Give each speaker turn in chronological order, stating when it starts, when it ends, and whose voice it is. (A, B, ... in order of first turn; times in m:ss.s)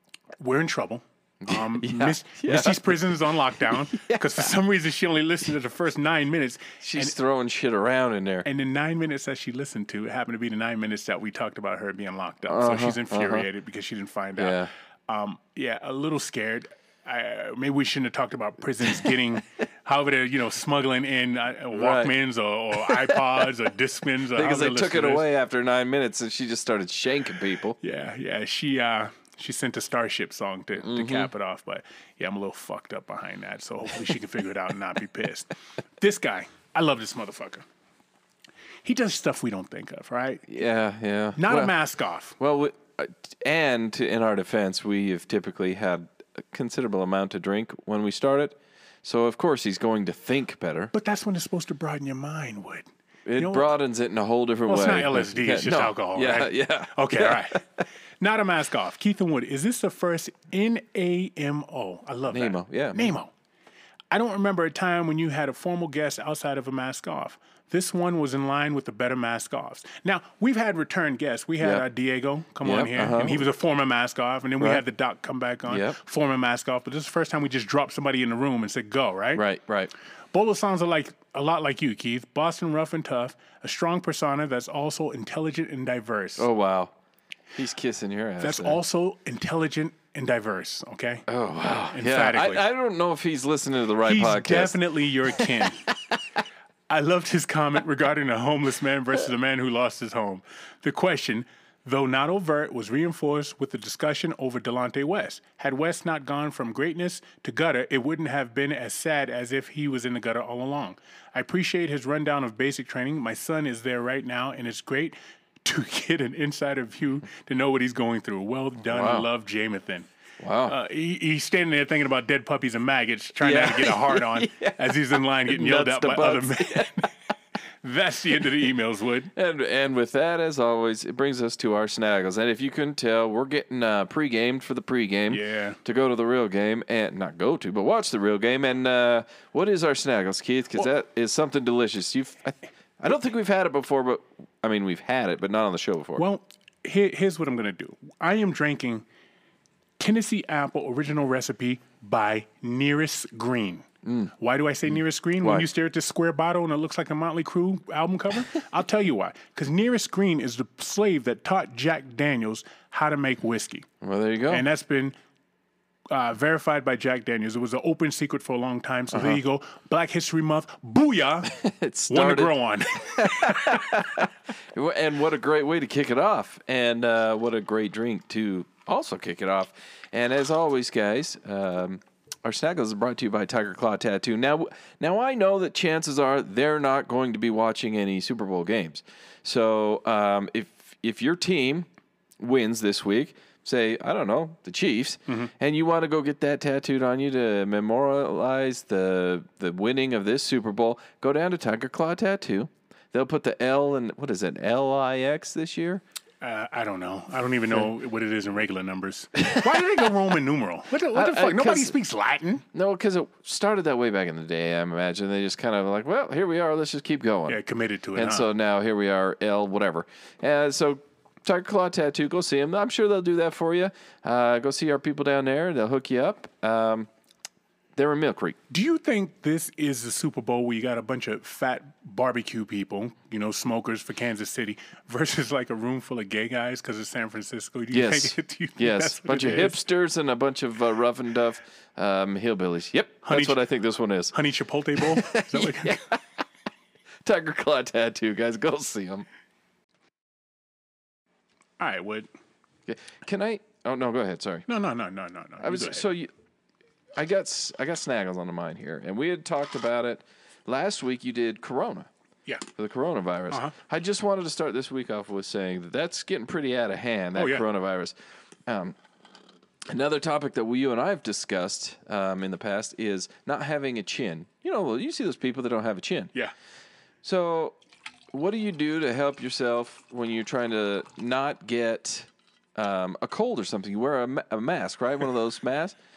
0:00.4-0:07.2 A
0:01.4-0:04.5 B
0:06.8-0:08.4 B
0:08.4-0:25.2 A
0:12.5-0:13.4 B
0:14.4-0:14.7 B
0:21.7-0:22.1 B
0:22.8-0:23.2 B
0:24.3-0:27.8 B
0:27.8-0:37.6 A
0:30.8-0:31.3 B
0:38.8-0:40.4 A
0:40.5-0:41.7 B
0:41.4-0:42.3 A
0:42.4-0:50.9 B
0:50.9-0:52.8 A
0:53.2-0:57.8 B
0:53.4-0:53.7 A
0:54.6-0:57.6 A
0:58.2-1:03.3 A
1:02.3-1:03.1 B
1:04.1-1:19.4 A
1:12.6-1:13.4 B
1:15.7-1:16.0 B
1:19.3-1:19.9 B
1:20.3-1:26.5 A
1:26.4-1:26.9 B
1:27.5-1:28.8 B
1:28.4-1:31.2 A
1:31.3-1:36.2 B
1:31.9-1:32.6 A
1:34.0-1:35.8 A
1:36.9-2:00.1 A
1:58.9-1:59.2 B
2:00.4-2:00.8 B
2:00.7-2:07.1 A
2:03.4-2:07.1 B
2:07.7-2:09.3 A
2:09.3-2:26.2 B
2:15.3-2:15.8 A
2:26.2-2:29.0 A
2:30.0-2:33.8 A
2:34.0-2:34.3 B
2:34.4-2:43.8 A
2:35.4-2:35.7 B
2:44.0-2:44.6 B
2:44.5-2:45.1 A
2:46.1-2:51.5 A
2:51.5-3:11.9 B
2:52.1-2:54.0 A
3:12.4-3:26.0 B
3:26.4-3:32.6 A
3:29.4-3:29.6 B
3:31.1-3:31.9 B
3:32.7-3:37.6 B
3:37.5-3:38.5 A
3:38.2-3:47.1 B
3:48.0-3:48.6 B
3:48.7-3:59.8 A
3:57.9-4:04.4 B
4:03.2-4:03.6 A
4:04.3-4:06.0 A
4:05.0-4:06.4 B
4:07.2-4:09.3 B
4:11.8-4:12.3 A
4:12.9-4:14.6 B
4:14.7-4:16.0 A
4:15.6-4:16.3 B
4:17.2-4:22.1 B
4:22.8-4:28.1 B
4:27.3-4:27.6 A
4:28.7-4:29.0 B
4:29.9-4:36.3 B
4:37.2-4:37.8 B
4:38.3-4:46.0 B